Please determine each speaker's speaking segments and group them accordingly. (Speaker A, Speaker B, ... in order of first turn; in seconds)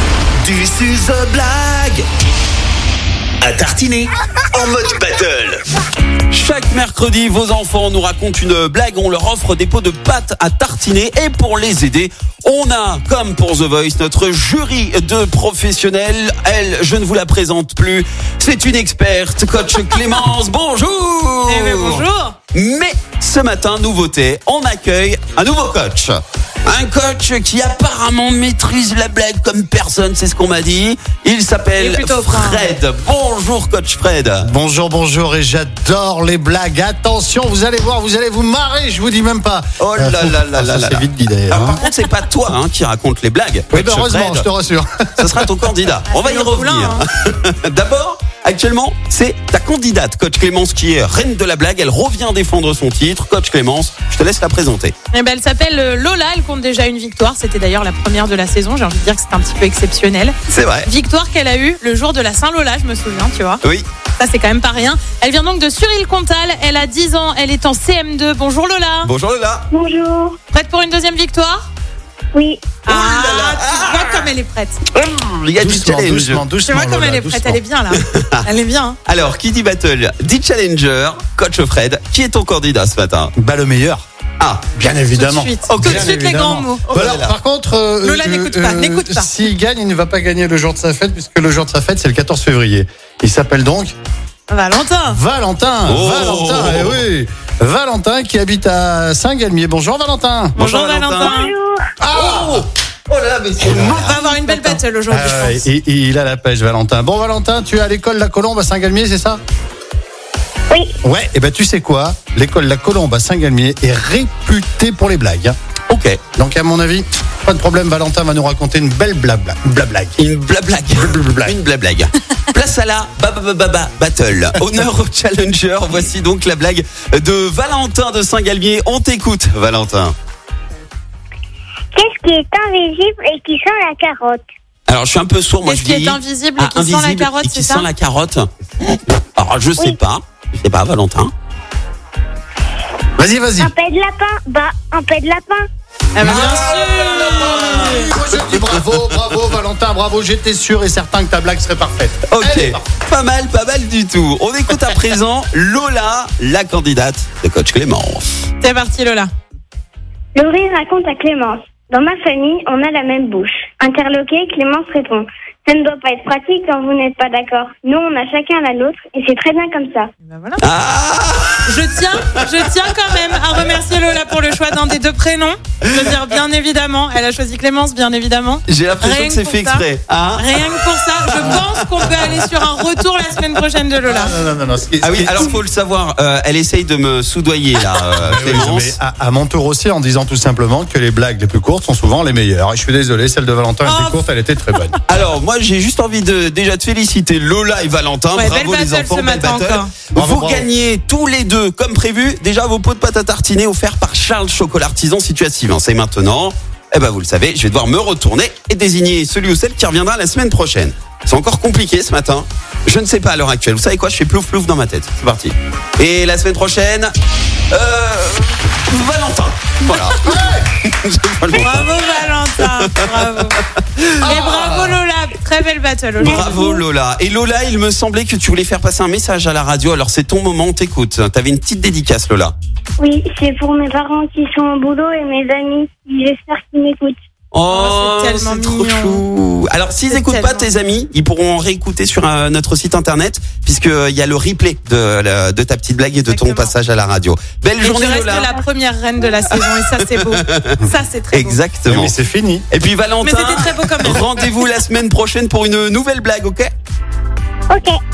Speaker A: 0.4-2.0, 3.4-5.6
Speaker B: 6.3-22.0, 22.5-34.5, 39.8-44.5, 45.2-54.9, 60.5-60.9, 69.0-69.7, 72.9-74.3, 74.9-76.5, 77.9-78.3, 79.1-83.3, 84.4-84.8, 85.7-86.1, 87.0-87.3, 95.9-97.0, 100.5-101.3, 102.1-104.2, 115.9-116.2, 120.2-130.2, 134.9-141.3, 146.2-149.2, 152.3-158.4, 170.6-171.8, 172.3-173.8, 178.7-182.3, 185.0-189.0, 195.1-217.1, 217.7-222.0, 222.6-223.4, 224.0-224.3, 226.2-232.6, 237.5-248.5, 249.5-250.8, 251.3-252.2, 252.7-256.7
Speaker C: 21.4-22.4, 31.8-32.7, 46.1-47.0, 55.1-63.6, 64.2-69.1, 70.5-71.6, 72.8-74.8, 76.7-79.0, 85.0-87.1, 88.0-89.3, 94.5-95.2, 100.6-101.5, 104.0-105.7, 135.6-137.9, 146.2-148.1, 158.6-159.3, 170.2-170.6, 171.7-184.3, 193.8-194.2, 198.3-200.0, 221.5-223.6, 224.2-226.7, 237.7-239.2, 240.1-240.7, 246.3-246.7, 247.8-251.6, 253.2-254.5
Speaker D: 34.4-41.8, 43.7-45.6, 75.6-77.6, 83.4-84.0, 84.8-94.0, 95.1-100.6, 102.0-102.7, 103.6-109.4, 111.0-115.6, 116.3-120.2, 120.9-121.6, 143.2-143.7, 146.2-152.8, 184.0-185.6, 188.2-195.0, 200.1-200.7, 220.0-220.7, 224.3-224.7, 251.9-252.7
Speaker E: 69.7-70.4, 72.3-72.8, 101.2-101.9, 131.9-134.4, 143.6-145.6, 160.3-170.1, 226.2-226.8, 233.0-237.2, 257.7-258.0